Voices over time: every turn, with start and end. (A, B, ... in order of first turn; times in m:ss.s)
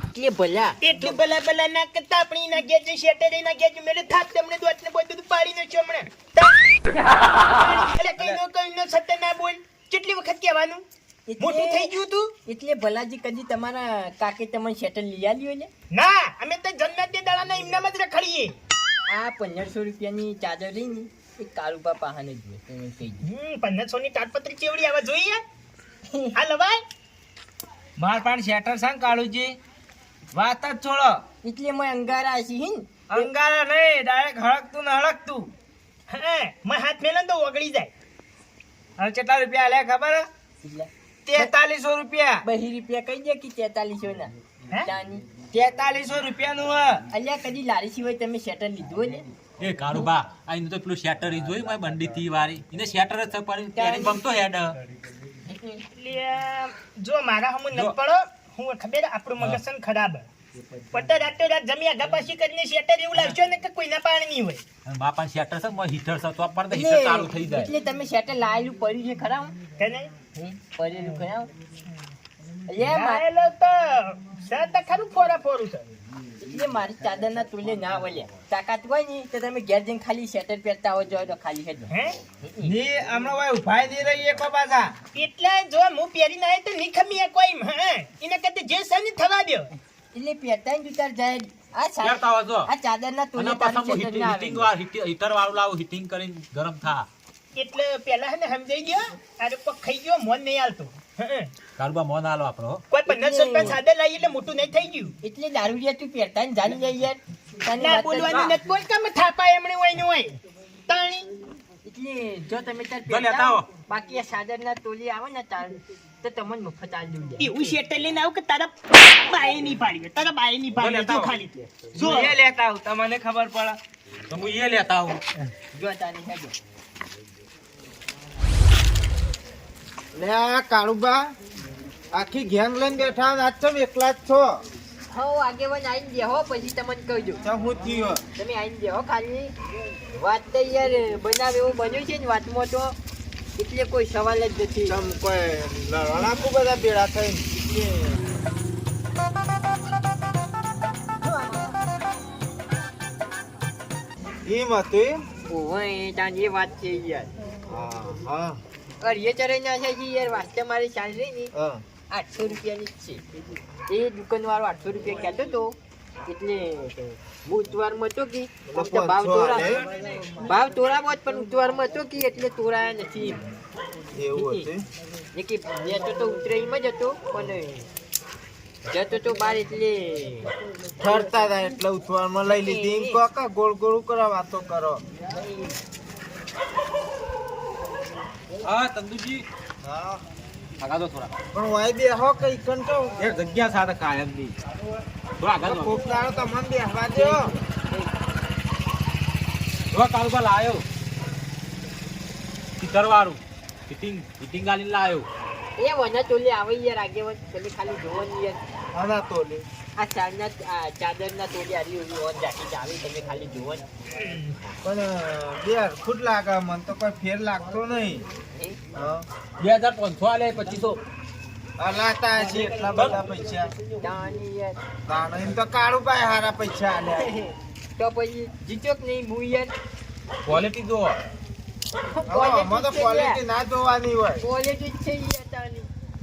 0:00.1-0:00.8 A
0:00.8-0:07.0 B
0:07.5-0:10.8 B
0:11.3-0:11.9 A
0:11.4-0:12.3 B
0:12.5-0:15.7 A
0:15.9-0:18.6 B
0:19.1-0:23.2 A
0:23.2-0:25.4 B
0:26.1-0:26.4 A
0:26.4-0:26.8 B
0:28.0-0:29.6 C
0:30.3-0:31.2 C
0:31.4-0:33.3 A
0:33.1-0:35.5 C
0:36.1-0:37.9 B
0:39.0-0:40.3 C
0:40.6-0:41.5 A
0:41.3-0:42.4 C
0:42.4-0:44.3 A
0:44.8-0:45.3 A
0:45.5-0:47.0 C
0:47.1-0:49.3 A
0:49.6-0:54.8 D
0:53.8-0:54.2 A
0:55.5-0:55.8 A
0:55.9-1:00.3 B
1:00.9-1:04.6 B
1:04.9-1:07.7 D
1:06.7-1:09.6 A
1:09.8-1:10.1 B
1:10.4-1:11.5 A
1:12.7-1:13.2 A
1:12.8-1:15.9 B
1:16.4-1:22.8 A
1:21.9-1:22.2 B
1:22.6-1:24.9 C
1:25.1-1:29.7 B
1:30.1-1:34.7 A
1:32.0-1:32.7 D
1:33.4-1:37.1 D
1:37.6-1:41.5 B
1:41.8-1:42.8 D
1:42.9-1:45.1 B
1:43.1-1:43.8 A
1:45.2-1:48.5 A
1:47.8-1:51.3 B
1:51.8-1:57.8 A
1:53.1-1:53.7 D
1:57.4-2:02.4 B
2:00.7-2:01.3 D
2:02.0-2:03.8 C
2:04.3-2:05.2 D
2:05.7-2:06.6 A
2:10.1-2:11.4 E
2:12.1-2:14.6 E
2:15.1-2:17.4 A
2:17.4-2:18.2 E
2:18.4-2:19.5 A
2:20.2-2:23.0 A
2:23.6-2:25.0 A
2:24.9-2:28.2 E
2:34.4-2:35.2 E
2:35.5-2:37.3 A
2:37.7-2:38.6 E
2:39.0-2:41.5 A
2:41.5-2:41.8 E
2:42.1-2:43.2 A
2:43.9-2:45.8 A
2:46.3-2:49.9 A
2:48.7-2:49.9 E
2:49.6-2:50.3 C
2:50.4-2:53.4 A
2:54.1-2:54.9 E
2:54.4-2:54.7 A
2:55.3-2:57.9 A
2:58.9-3:00.5 A
3:01.0-3:05.0 E
3:02.4-3:03.2 A
3:05.3-3:05.8 A
3:08.6-3:09.4 D
3:09.8-3:10.2 E
3:10.8-3:11.3 D
3:11.5-3:13.3 E
3:13.2-3:14.6 D
3:15.4-3:16.0 D
3:15.6-3:17.5 E
3:17.1-3:18.1 A
3:19.9-3:20.9 D
3:22.8-3:25.3 D
3:25.8-3:28.6 A
3:28.9-3:29.7 E
3:30.0-3:33.8 A
3:34.2-3:34.6 B
3:34.8-3:38.3 E
3:38.9-3:39.3 E
3:39.6-3:41.0 D
3:41.8-3:43.7 E
3:44.0-3:44.8 A
3:45.1-3:47.3 E
3:47.1-3:49.7 A
3:50.5-3:51.2 D
3:52.1-3:53.4 A
3:52.3-3:54.4 E
3:54.4-3:55.9 A